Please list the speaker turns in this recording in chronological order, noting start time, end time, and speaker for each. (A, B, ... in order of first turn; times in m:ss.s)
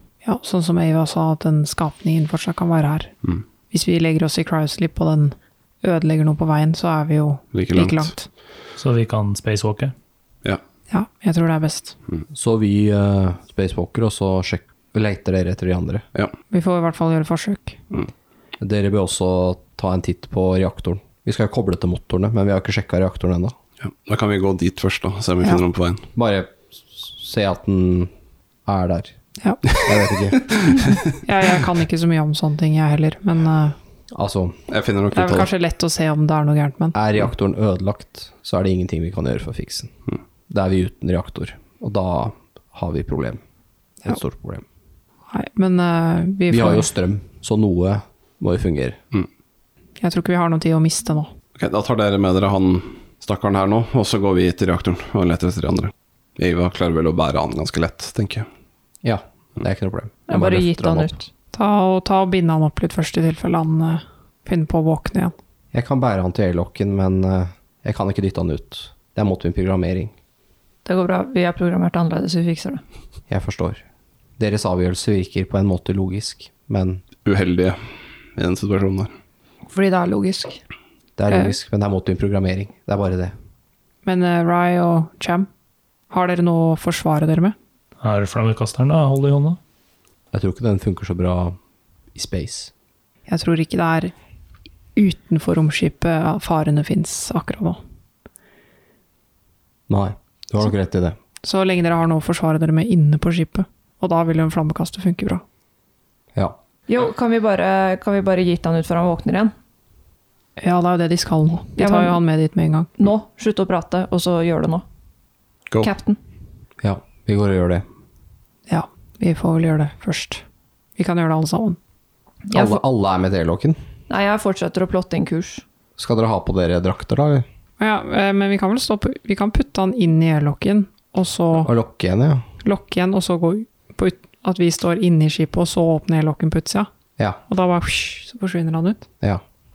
0:00.2-0:03.1 A
0:03.7-0:08.2 A
0:07.5-0:08.1 B
0:08.8-0:09.9 C
0:10.9-0:11.9 A
0:12.3-0:16.0 D
0:16.5-0:17.8 A
0:18.6-0:23.5 D
0:23.8-0:26.0 B
0:26.1-0:28.1 D
0:28.6-0:29.2 D
0:29.4-0:29.7 A
0:29.7-0:30.7 D
0:30.5-0:31.0 B
0:31.2-0:33.7 A
0:34.1-0:34.6 D
0:34.7-0:35.5 B
0:35.1-0:36.9 A
0:36.9-0:39.9 D
0:40.5-0:43.4 D
0:44.0-0:44.6 D
0:45.3-0:46.9 A
0:46.5-0:49.0 D
0:50.0-0:51.3 A
0:51.5-0:58.5 B
0:59.0-1:01.1 D
1:00.3-1:01.3 E
1:01.5-1:05.3 A
1:05.7-1:10.1 D
1:10.8-1:12.8 E
1:13.3-1:13.8 D
1:14.4-1:17.0 D
1:17.2-1:17.8 B
1:18.3-1:19.1 B
1:19.7-1:20.6 E
1:21.2-1:23.3 D
1:24.0-1:25.5 A
1:26.1-1:27.5 A
1:28.0-1:29.6 C
1:30.3-1:31.6 D
1:32.1-1:32.7 D
1:33.3-1:34.1 A
1:35.0-1:37.8 A
1:39.9-1:41.2 D
1:41.4-1:45.4 A
1:46.9-1:49.5 E
1:50.6-1:52.9 A
1:51.8-1:52.2 E
1:53.0-1:54.8 E
1:55.8-1:56.2 E
1:56.8-1:57.8 D
1:58.7-2:00.4 A
2:01.0-2:01.8 A
2:02.5-2:02.8 E
2:02.5-2:03.8 D
2:04.1-2:05.6 E
2:06.0-2:07.4 D
2:07.8-2:11.7 A
2:11.6-2:12.4 D
2:12.6-2:16.9 A
2:17.5-2:19.0 A